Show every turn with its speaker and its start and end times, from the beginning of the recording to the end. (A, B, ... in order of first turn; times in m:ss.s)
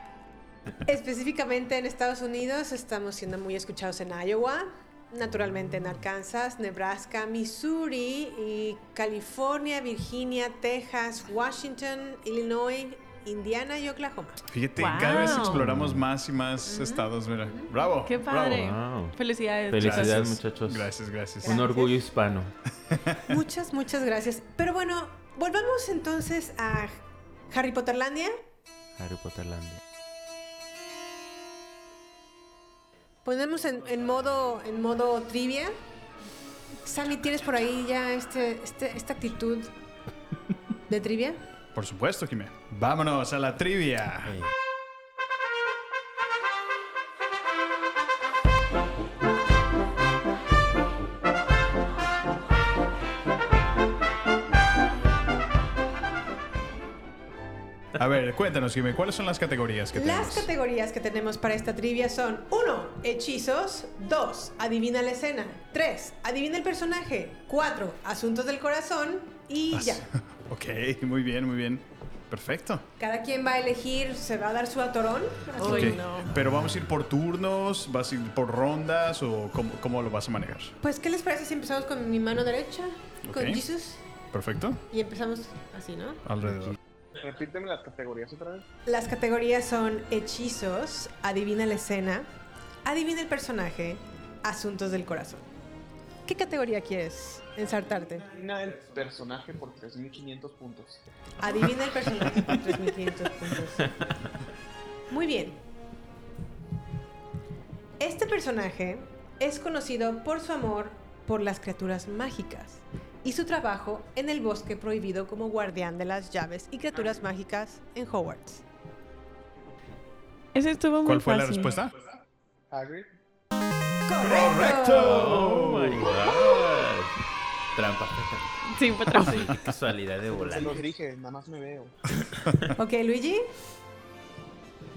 0:00.8-0:14.4 A
0:14.5-0:18.8 B
0:14.8-0:15.6 C
0:15.4-0:16.0 D
0:18.0-0:20.3 C
0:18.3-0:22.6 D
0:19.8-0:21.6 B
0:21.4-0:21.9 A
0:22.9-0:23.2 B
0:23.2-0:28.3 A
0:29.0-0:29.8 D
0:33.2-0:35.7 A
0:36.8-0:39.7 A
0:40.9-0:41.4 A
0:41.7-0:44.4 B
0:44.3-0:44.5 D
0:58.0-1:00.5 B
0:59.9-1:10.0 A
1:09.7-1:12.8 B
1:13.0-1:16.0 A
1:15.5-1:16.3 C
1:15.6-1:20.8 B
1:20.8-1:24.0 A
1:23.2-1:23.6 B
1:24.3-1:24.8 B
1:24.9-1:26.2 A
1:26.2-1:26.8 B
1:27.2-1:28.6 E
1:28.8-1:32.3 A
1:32.8-1:35.4 A
1:36.2-1:38.3 A
1:38.3-1:41.0 E
1:41.4-1:43.8 A
1:45.1-1:45.6 A
1:48.0-1:58.6 A
2:00.5-2:01.8 C
2:01.0-2:01.9 B
2:02.7-2:03.1 E
2:04.1-2:05.4 A
2:04.2-2:06.2 B
2:04.6-2:07.2 D
2:06.0-2:06.6 A
2:07.7-2:08.6 D
2:08.6-2:09.5 C
2:09.1-2:10.9 D
2:10.3-2:12.0 E
2:12.8-2:13.4 A